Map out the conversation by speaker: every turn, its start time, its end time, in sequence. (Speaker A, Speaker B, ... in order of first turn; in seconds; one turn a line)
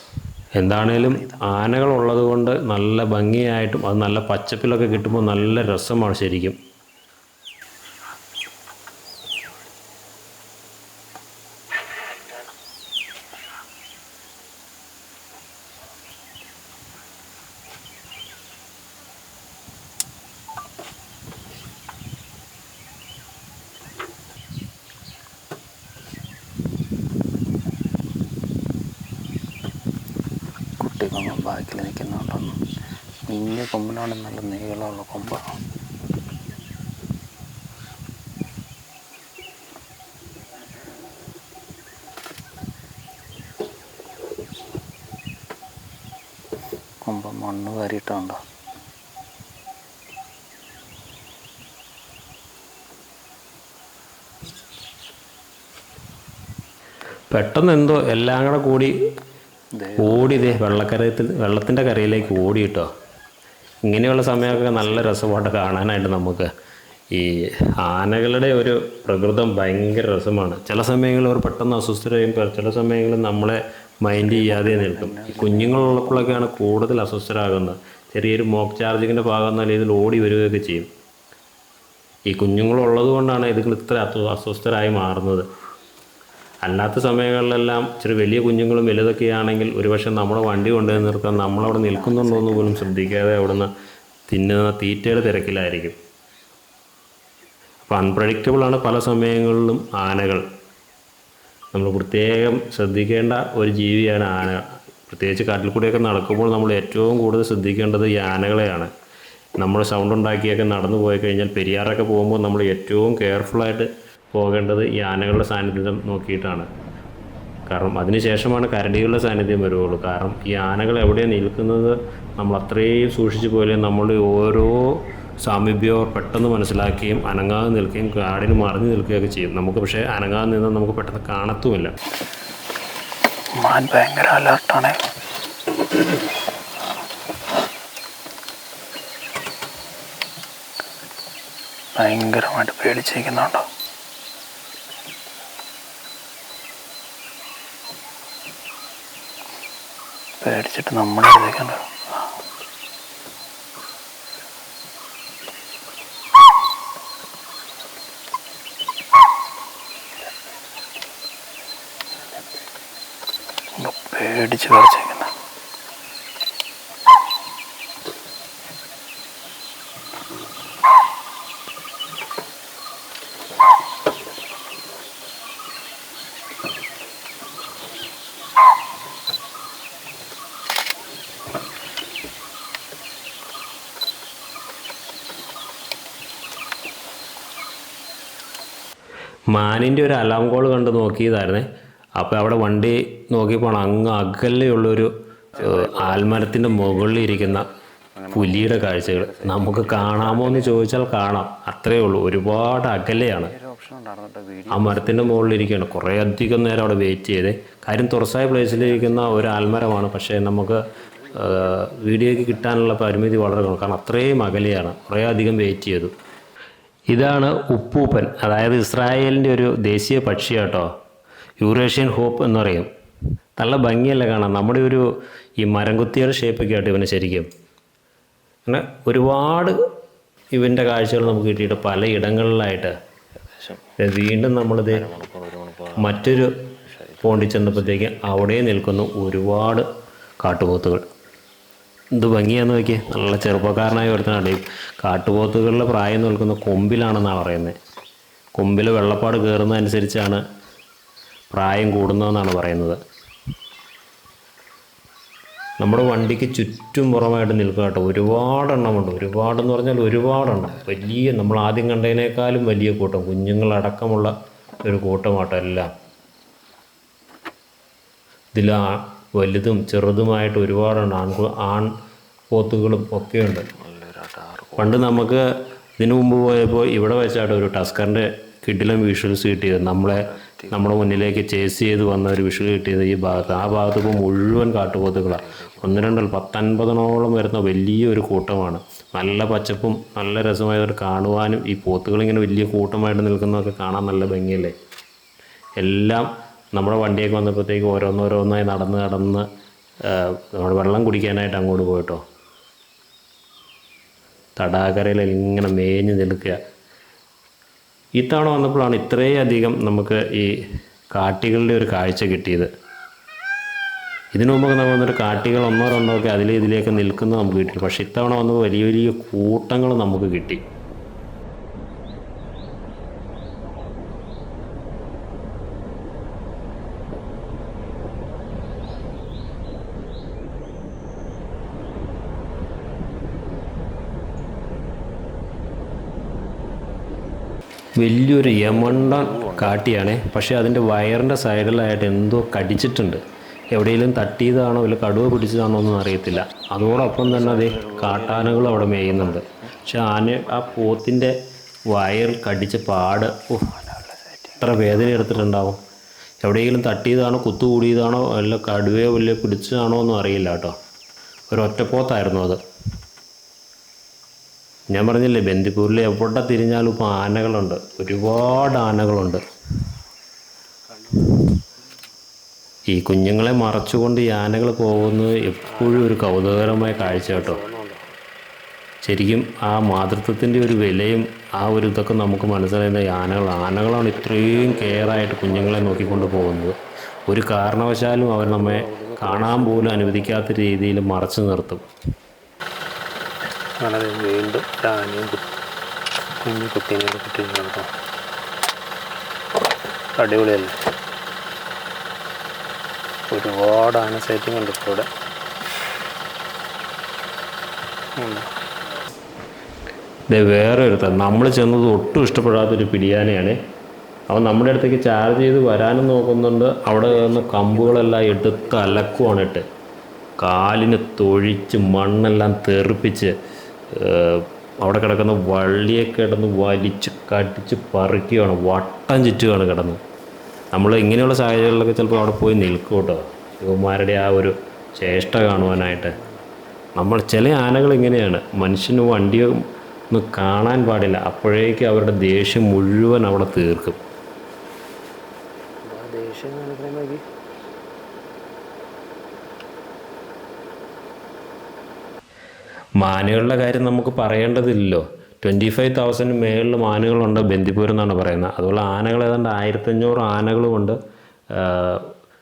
Speaker A: 0.6-6.6
Speaker B: 0.7-1.6
Speaker B: 30.8-32.6
Speaker B: 33.3-35.5
Speaker B: 47.0-48.4
Speaker A: 57.3-59.0
Speaker B: 59.7-60.8
Speaker A: 60.0-62.9
Speaker A: 63.9-66.5
Speaker B: 64.5-65.1
Speaker A: 67.1-80.9
Speaker B: 74.2-76.5
Speaker A: 82.3-85.5
Speaker A: 86.6-93.7
Speaker B: 90.8-93.0
Speaker A: 94.3-96.0
Speaker A: 97.9-100.5
Speaker A: 101.7-108.9
Speaker A: 109.6-116.7
Speaker A: 117.7-131.9
Speaker B: 133.6-135.0
Speaker B: 142.0-143.7
Speaker B: 150.4-152.3
Speaker B: 163.8-165.3
Speaker A: 189.5-197.7
Speaker B: 195.6-196.9
Speaker B: 198.2-200.9
Speaker A: 198.3-203.5
Speaker B: 203.3-205.5
Speaker A: 204.7-216.1
Speaker B: 208.7-209.3
Speaker A: 217.1-220.9
Speaker A: 221.6-222.9
Speaker A: 223.6-225.1
Speaker A: 225.6-227.5
Speaker A: 228.7-229.8
Speaker A: 230.5-232.9
Speaker B: 233.5-233.8
Speaker A: 234.0-235.1
Speaker B: 234.9-238.2
Speaker A: 236.0-236.7
Speaker A: 237.2-239.9
Speaker A: 240.4-241.1
Speaker A: 242.1-247.8
Speaker A: 248.6-250.4
Speaker A: 251.5-253.0
Speaker A: 255.8-265.9
Speaker A: 268.5-271.9
Speaker A: 272.5-273.7
Speaker B: 273.7-275.3
Speaker A: 274.8-275.5
Speaker A: 276.0-294.8
Speaker B: 280.1-281.0
Speaker B: 285.4-285.9
Speaker A: 295.8-299.5
Speaker A: 300.0-302.2
Speaker A: 304.6-306.6
Speaker A: 308.2-310.6
Speaker A: 311.1-312.7
Speaker A: 314.3-320.6
Speaker A: 338.0-351.4
Speaker B: 338.4-339.8
Speaker B: 346.9-349.7
Speaker A: 351.9-353.7
Speaker B: 353.6-355.5
Speaker A: 354.6-355.8
Speaker A: 356.4-360.8
Speaker A: 361.5-362.6
Speaker A: 364.9-369.4
Speaker A: 372.9-377.6
Speaker B: 375.7-376.1
Speaker B: 376.7-378.0
Speaker A: 379.0-386.8
Speaker B: 384.2-386.6
Speaker A: 387.3-391.9
Speaker B: 388.4-390.4
Speaker B: 393.8-395.4
Speaker B: 396.4-397.9
Speaker B: 400.2-400.8
Speaker B: 403.3-405.1
Speaker B: 408.2-408.5
Speaker A: 410.3-413.6
Speaker A: 414.3-419.6
Speaker B: 417.0-419.5
Speaker A: 420.4-423.4
Speaker A: 423.9-430.0
Speaker A: 430.7-436.1
Speaker B: 435.1-436.4
Speaker A: 437.0-444.0
Speaker B: 445.9-447.2
Speaker A: 453.0-461.0
Speaker A: 461.5-462.1